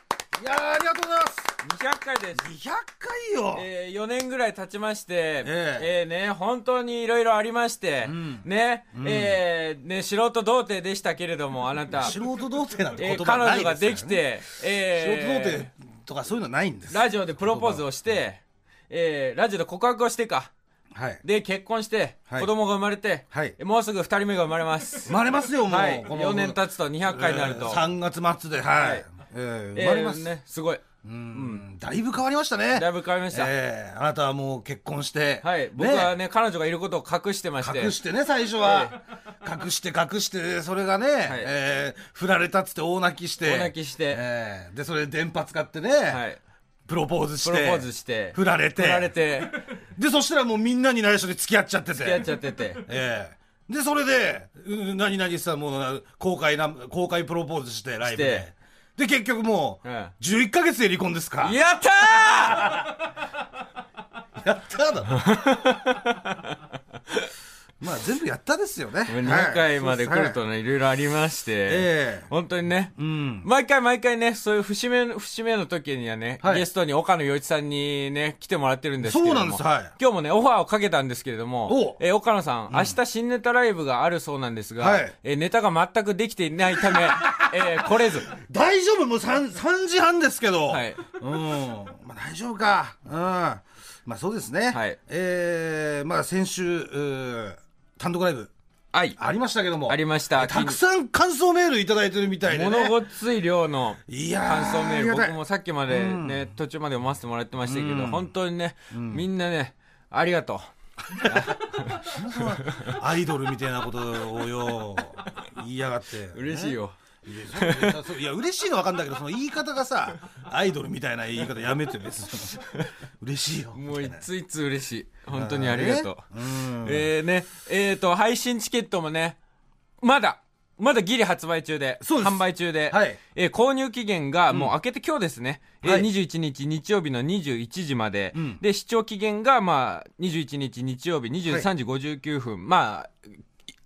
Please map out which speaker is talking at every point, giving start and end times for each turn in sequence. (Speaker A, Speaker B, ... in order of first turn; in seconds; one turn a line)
Speaker A: 0.4-1.6
Speaker B: 1.6-2.5
Speaker A: 2.4-3.7
Speaker B: 3.5-12.2
Speaker A: 5.4-5.9
Speaker A: 8.0-9.4
Speaker A: 11.9-14.2
Speaker B: 12.9-15.7
Speaker A: 14.9-17.8
Speaker B: 16.9-20.5
Speaker A: 20.9-21.2
Speaker B: 21.2-27.8
Speaker A: 23.3-23.6
Speaker A: 25.0-30.3
Speaker B: 28.8-29.1
Speaker B: 29.7-31.6
Speaker A: 31.0-36.1
Speaker B: 32.7-33.5
Speaker B: 35.4-38.0
Speaker A: 37.6-46.2
Speaker B: 38.6-39.0
Speaker B: 41.2-41.5
Speaker B: 43.4-44.2
Speaker B: 46.1-46.4
Speaker A: 46.9-52.3
Speaker B: 47.4-49.6
Speaker B: 52.0-52.9
Speaker A: 52.8-61.6
Speaker B: 58.0-58.5
Speaker B: 59.8-60.1
Speaker B: 61.4-62.9
Speaker A: 62.2-62.9
Speaker A: 64.4-65.3
Speaker B: 65.1-66.6
Speaker A: 67.8-70.4
Speaker B: 69.1-88.3
Speaker A: 71.7-72.3
Speaker A: 73.0-73.5
Speaker A: 76.4-76.7
Speaker A: 79.0-79.9
Speaker A: 81.7-82.0
Speaker A: 82.7-83.0
Speaker A: 84.8-85.1
Speaker A: 86.7-98.5
Speaker B: 90.7-91.1
Speaker B: 94.7-95.0
Speaker B: 98.9-99.2
Speaker A: 99.2-103.0
Speaker B: 99.9-100.8
Speaker B: 102.5-112.2
Speaker A: 104.1-106.5
Speaker A: 107.6-108.3
Speaker A: 108.9-109.2
Speaker A: 111.2-122.6
Speaker B: 116.3-117.0
Speaker B: 117.5-118.0
Speaker A: 123.2-124.2
Speaker B: 123.7-129.4
Speaker A: 125.3-127.1
Speaker B: 130.0-143.4
Speaker A: 132.0-133.2
Speaker A: 135.8-136.1
Speaker A: 138.3-138.6